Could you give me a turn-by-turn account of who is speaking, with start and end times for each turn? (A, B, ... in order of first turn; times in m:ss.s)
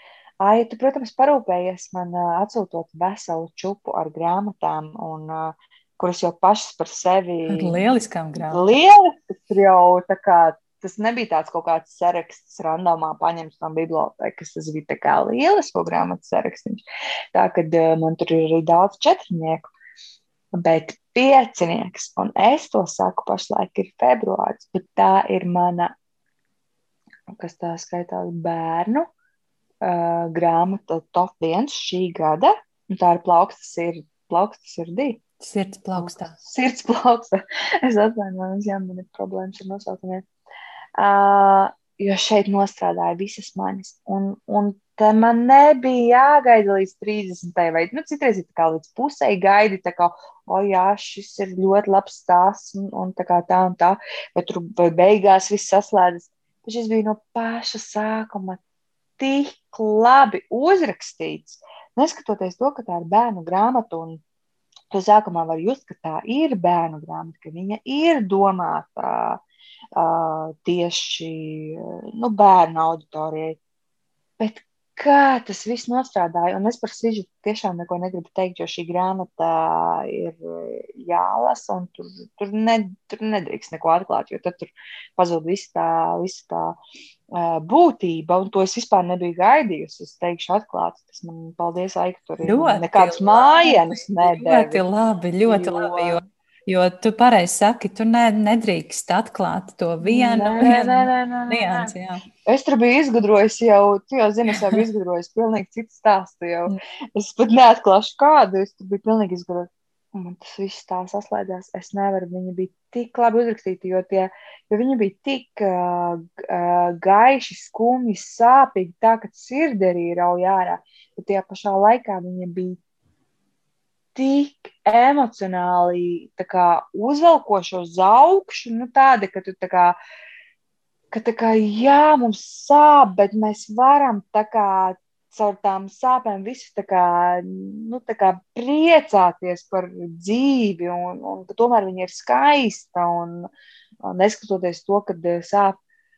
0:00.4-0:07.8 A
0:07.5-0:08.7 B
0:08.5-0:16.8 A
0:17.3-0:19.7 A
0:20.6-0:25.9 A
0:27.3-0:29.1 A
0:29.8-0:35.2 A
0:35.4-0:36.4 B
0:36.0-0:40.3 A
0:41.0-0:58.6 A
0:59.2-1:04.2 A
1:04.9-1:09.4 A
1:10.0-1:13.6 A
1:14.4-1:26.8 A
1:27.3-1:34.8 A
1:32.4-1:42.2 B
1:35.5-1:36.2 A
1:40.0-1:41.9 A
1:42.5-2:02.8 A
2:04.2-2:10.0 A
2:11.1-2:23.5 A
2:24.0-2:25.8 A